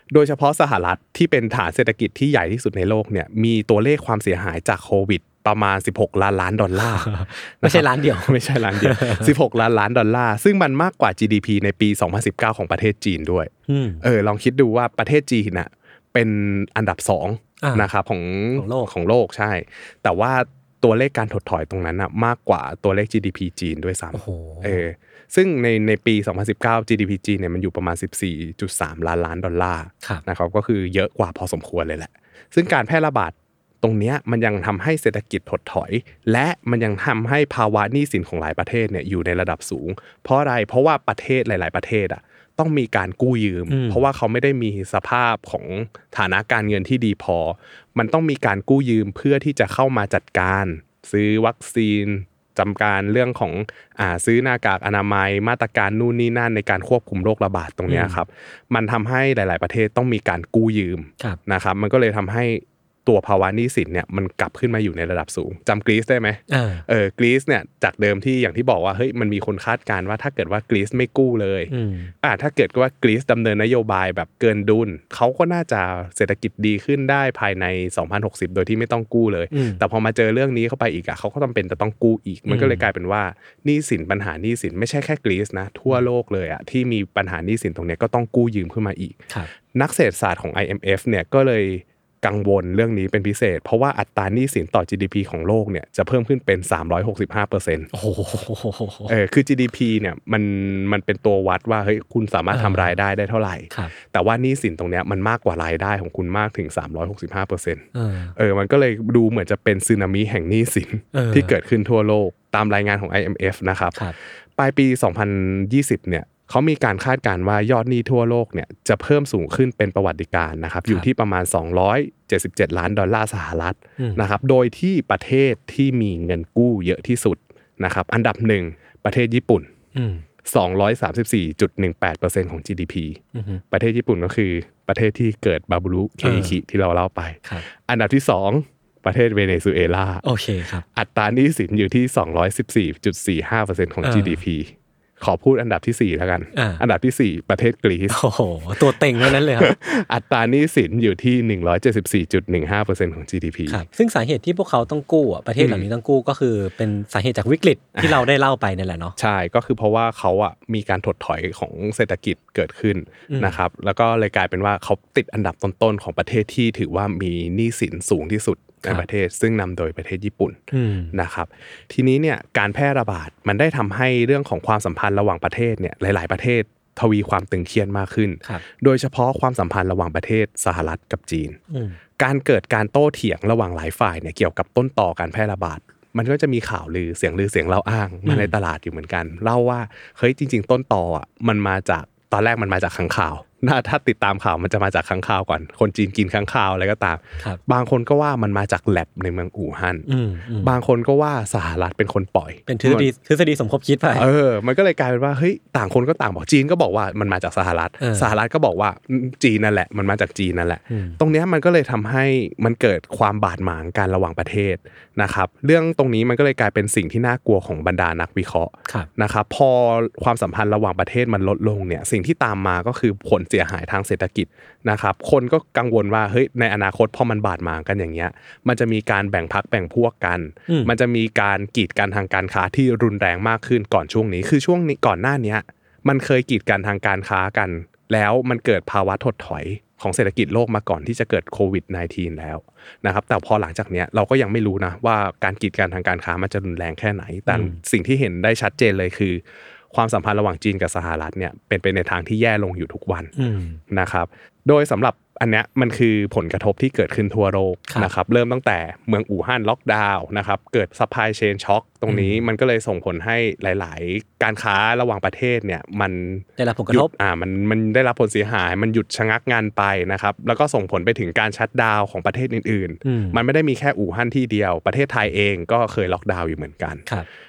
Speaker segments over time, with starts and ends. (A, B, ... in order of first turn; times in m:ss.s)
0:00.1-0:13.5 A
0:06.8-0:09.3 B
0:13.7-0:14.0 B
0:14.0-1:11.7 A
0:17.6-0:17.9 B
0:18.6-0:18.9 B
0:24.1-0:24.8 B
0:43.7-0:44.0 B
0:57.9-0:58.2 B
1:06.5-1:06.8 B
1:11.7-1:12.1 B
1:12.2-1:29.2 A
1:19.5-1:19.8 B
1:22.5-1:22.9 B
1:29.7-1:37.9 A
1:37.9-1:39.1 B
1:39.1-1:54.0 A
1:42.5-1:42.9 B
1:47.9-1:48.4 B
1:51.1-1:51.6 B
1:54.6-2:09.7 A
2:10.0-2:10.2 B
2:10.4-2:13.2 A
2:13.3-2:13.6 B
2:13.7-2:20.2 A
2:16.2-2:16.6 B
2:20.2-2:20.8 B
2:20.9-2:28.2 A
2:24.0-2:24.4 B
2:26.5-2:26.8 B
2:28.1-2:29.8 B
2:28.8-2:33.8 A
2:33.7-2:39.2 B
2:35.6-2:35.9 A
2:38.0-2:38.3 A
2:39.2-2:50.6 A
2:43.3-2:43.6 B
2:50.7-2:51.2 B
2:51.1-3:01.6 A
3:01.7-3:02.0 B
3:02.2-3:20.1 A
3:08.3-3:08.5 B
3:20.1-3:20.8 B
3:20.6-3:23.1 A
3:22.7-3:24.3 B
3:24.2-4:13.3 A
3:28.0-3:28.4 B
3:30.9-3:31.2 B
3:50.7-3:50.9 B
4:07.5-4:07.8 B
4:13.4-4:13.8 B
4:13.9-4:37.1 A
4:22.1-4:22.4 B
4:26.6-4:27.1 B
4:33.0-4:33.4 B